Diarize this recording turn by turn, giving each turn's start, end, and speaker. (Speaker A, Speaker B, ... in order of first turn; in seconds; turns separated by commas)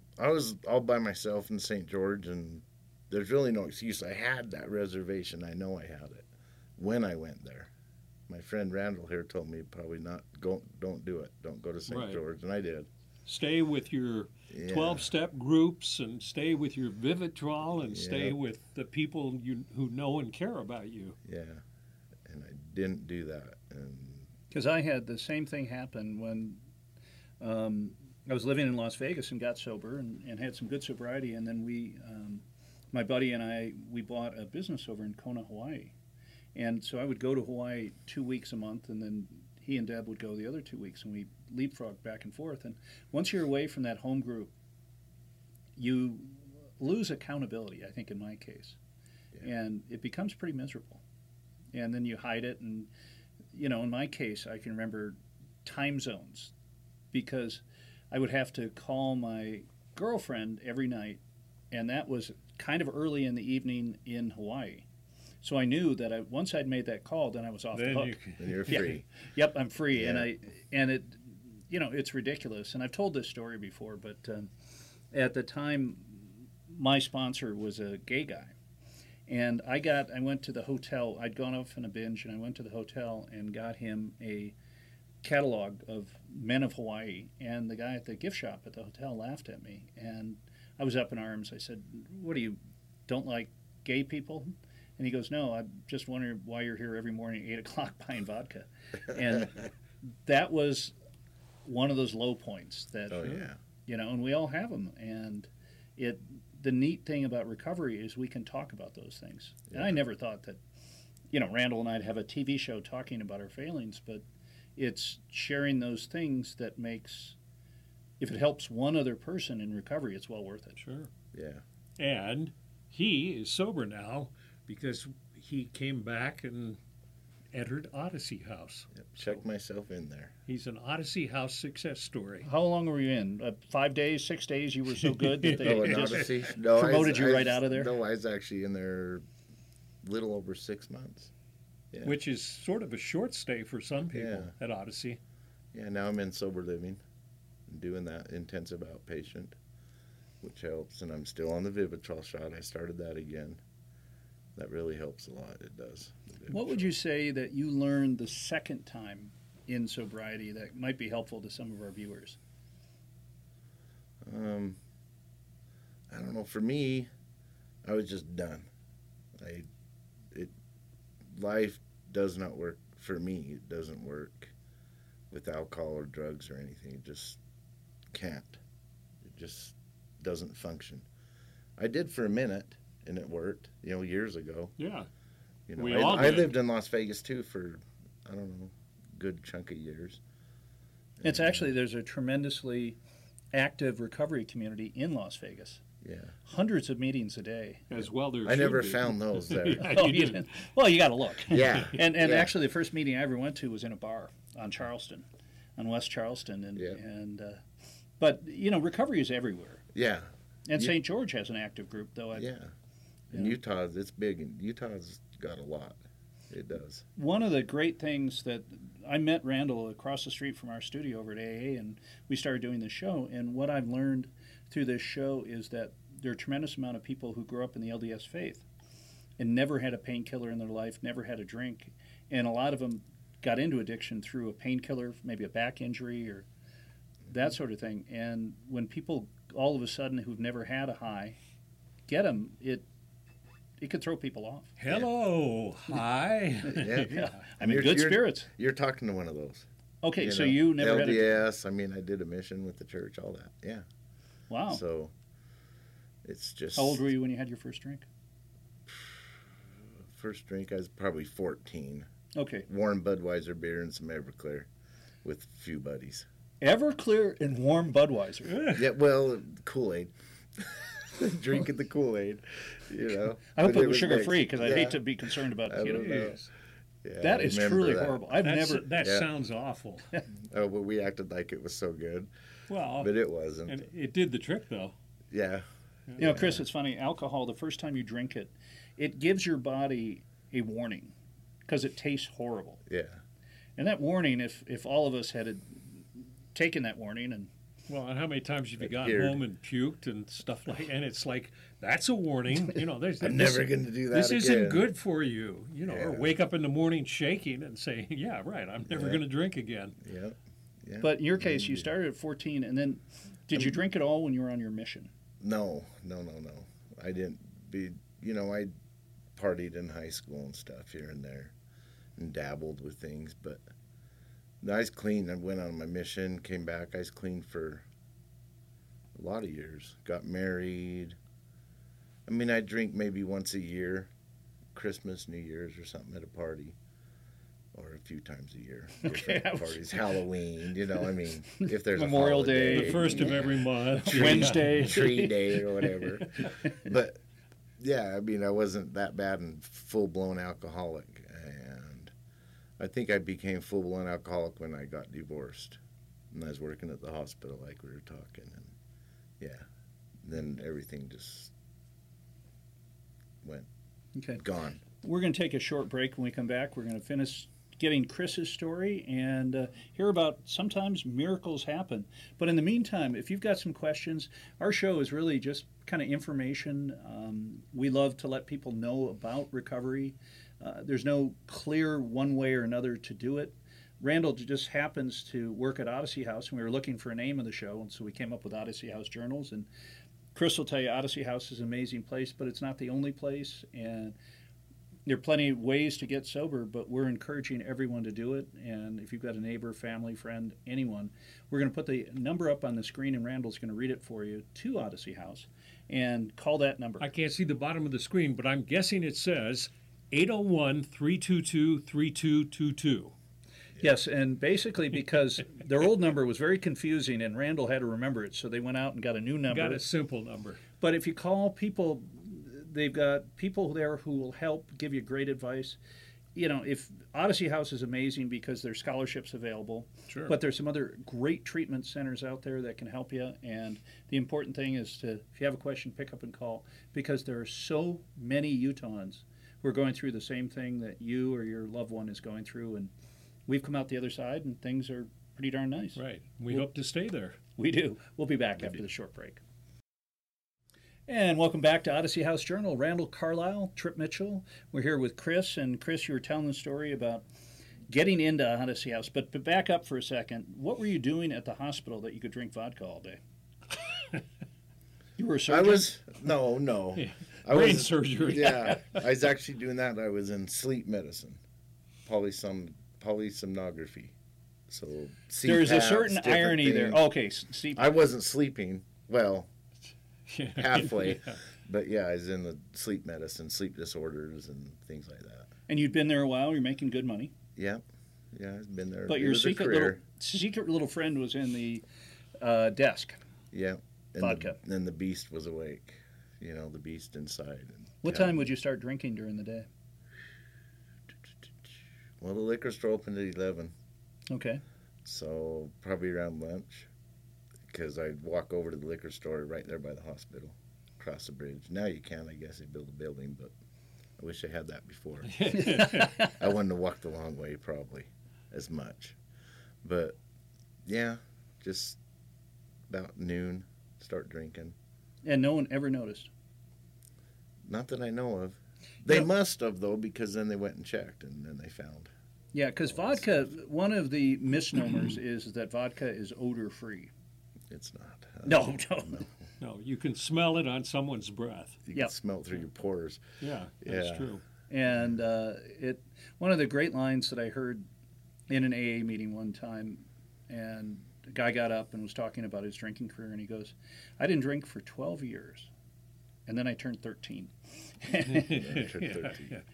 Speaker A: 0.2-7.7, Speaker A: 8.3-12.9, Speaker B: 11.9-12.2, Speaker B: 13.3-21.2, Speaker A: 14.5-15.1, Speaker A: 17.8-18.4, Speaker A: 21.2-21.6, Speaker A: 22.2-24.3, Speaker C: 24.5-26.6, Speaker C: 27.4-36.0, Speaker C: 36.5-44.5, Speaker C: 45.8-48.8, Speaker C: 49.4-51.0, Speaker C: 51.7-52.9, Speaker C: 53.5-56.5, Speaker C: 57.1-61.2, Speaker C: 61.7-64.9, Speaker C: 65.4-68.2, Speaker B: 67.7-68.9, Speaker A: 68.4-69.0, Speaker C: 68.7-74.5, Speaker A: 69.9-70.3, Speaker C: 75.1-78.5, Speaker C: 79.3-84.5, Speaker C: 85.2-99.7, Speaker C: 100.2-101.0, Speaker C: 101.7-110.6, Speaker A: 103.1-103.6, Speaker C: 111.3-114.2, Speaker C: 114.8-117.4, Speaker C: 118.2-120.8, Speaker B: 120.8-121.1, Speaker A: 121.3-121.6, Speaker B: 122.0-126.8, Speaker B: 127.5-129.1, Speaker A: 128.9-130.3, Speaker B: 130.5-132.5, Speaker C: 132.4-137.9, Speaker B: 135.4-136.3, Speaker A: 135.6-139.2, Speaker A: 140.0-141.3, Speaker B: 142.0-145.2, Speaker A: 144.1-144.5, Speaker A: 145.7-147.0, Speaker A: 147.7-149.6, Speaker A: 150.4-153.6, Speaker A: 154.6-156.9, Speaker C: 156.5-162.4, Speaker A: 164.2-164.8, Speaker A: 166.1-167.1, Speaker A: 167.8-168.7, Speaker A: 169.4-169.7, Speaker A: 171.3-174.5, Speaker A: 175.3-177.4, Speaker A: 178.1-178.6, Speaker A: 179.2-181.1, Speaker A: 181.8-184.8, Speaker B: 184.8-185.1, Speaker A: 185.7-190.2, Speaker B: 185.8-186.5, Speaker A: 191.2-191.6, Speaker C: 191.2-193.0, Speaker C: 193.5-195.8, Speaker A: 196.0-196.4, Speaker C: 196.4-197.9, Speaker B: 197.9-200.5, Speaker A: 198.4-200.0, Speaker C: 199.8-209.9, Speaker A: 201.5-202.6, Speaker A: 209.9-210.9, Speaker C: 210.7-212.5, Speaker A: 212.3-212.7, Speaker A: 213.3-217.1, Speaker C: 213.3-213.6, Speaker C: 217.2-228.7, Speaker C: 229.4-236.5, Speaker C: 237.3-241.4, Speaker C: 242.1-242.9, Speaker C: 243.8-244.7, Speaker B: 244.8-247.4, Speaker A: 246.7-249.7, Speaker C: 247.1-248.5, Speaker C: 250.0-251.4, Speaker A: 250.2-253.9, Speaker C: 254.5-254.8, Speaker A: 254.7-255.1, Speaker A: 256.2-257.1, Speaker C: 256.8-258.1, Speaker A: 258.9-259.3, Speaker A: 260.1-262.1, Speaker C: 262.4-262.7, Speaker A: 262.7-264.7, Speaker A: 265.2-266.3, Speaker C: 266.6-268.7, Speaker B: 268.5-268.8, Speaker A: 268.7-276.4, Speaker C: 273.5-276.3, Speaker B: 275.9-276.4, Speaker A: 277.0-278.3, Speaker C: 277.2-278.9, Speaker B: 278.4-280.1, Speaker A: 279.0-279.3, Speaker A: 280.3-282.3, Speaker B: 282.7-283.1, Speaker A: 283.0-283.9, Speaker B: 283.7-284.9, Speaker A: 285.3-285.7, Speaker A: 286.2-286.6, Speaker C: 286.2-291.1, Speaker C: 291.7-292.8, Speaker A: 292.9-293.2, Speaker C: 293.8-297.5, Speaker B: 297.9-310.0, Speaker A: 298.8-299.4, Speaker A: 303.2-304.9, Speaker A: 305.9-306.4, Speaker A: 308.9-309.2, Speaker A: 310.0-311.9, Speaker C: 311.0-315.1, Speaker A: 315.4-318.7, Speaker A: 319.4-321.6, Speaker A: 322.2-323.6, Speaker A: 324.6-327.9, Speaker A: 329.1-331.2, Speaker A: 332.3-334.1, Speaker A: 334.7-336.8, Speaker A: 337.7-347.2, Speaker C: 339.0-340.0, Speaker C: 341.6-343.5, Speaker B: 342.7-345.0, Speaker C: 344.0-346.0, Speaker A: 347.8-352.1, Speaker A: 352.8-355.8, Speaker A: 356.3-358.8, Speaker A: 359.4-359.7, Speaker A: 360.2-361.5, Speaker A: 363.4-363.7, Speaker C: 364.1-364.4, Speaker A: 364.4-364.8, Speaker C: 365.0-389.7, Speaker C: 390.3-394.2, Speaker C: 395.1-407.1, Speaker B: 407.0-413.1, Speaker C: 413.8-419.8, Speaker B: 419.5-420.6, Speaker C: 420.8-425.8, Speaker C: 426.4-442.9, Speaker B: 430.1-430.4, Speaker C: 443.5-446.0, Speaker B: 446.0-447.4, Speaker C: 447.6-449.4, Speaker C: 451.1-457.3, Speaker C: 457.9-463.2, Speaker C: 465.2-465.9, Speaker A: 465.5-471.4, Speaker B: 467.0-468.9, Speaker A: 472.1-474.1, Speaker A: 474.7-477.0, Speaker C: 475.4-477.9, Speaker A: 477.8-479.5, Speaker B: 480.3-481.4, Speaker A: 480.6-485.5, Speaker C: 485.7-487.3, Speaker A: 487.6-490.0, Speaker C: 489.1-491.8, Speaker C: 492.4-493.2, Speaker A: 493.5-498.4, Speaker C: 494.2-494.6, Speaker C: 498.0-499.7, Speaker A: 501.6-503.7, Speaker C: 504.3-504.6, Speaker A: 505.0-506.9, Speaker A: 507.7-513.5, Speaker A: 514.2-519.2, Speaker B: 515.3-516.1, Speaker C: 515.6-516.3, Speaker A: 519.8-520.2, Speaker A: 520.9-522.0, Speaker A: 522.9-524.8, Speaker C: 525.2-526.3, Speaker A: 527.6-532.1, Speaker C: 532.5-537.1, Speaker A: 532.9-533.2, Speaker A: 537.7-539.3, Speaker C: 538.4-539.3, Speaker B: 539.6-541.8, Speaker A: 541.9-543.2, Speaker B: 543.4-544.4, Speaker A: 543.8-544.3, Speaker C: 544.7-547.9, Speaker C: 548.5-555.7, Speaker C: 556.5-558.9, Speaker B: 558.4-559.6, Speaker A: 558.5-559.6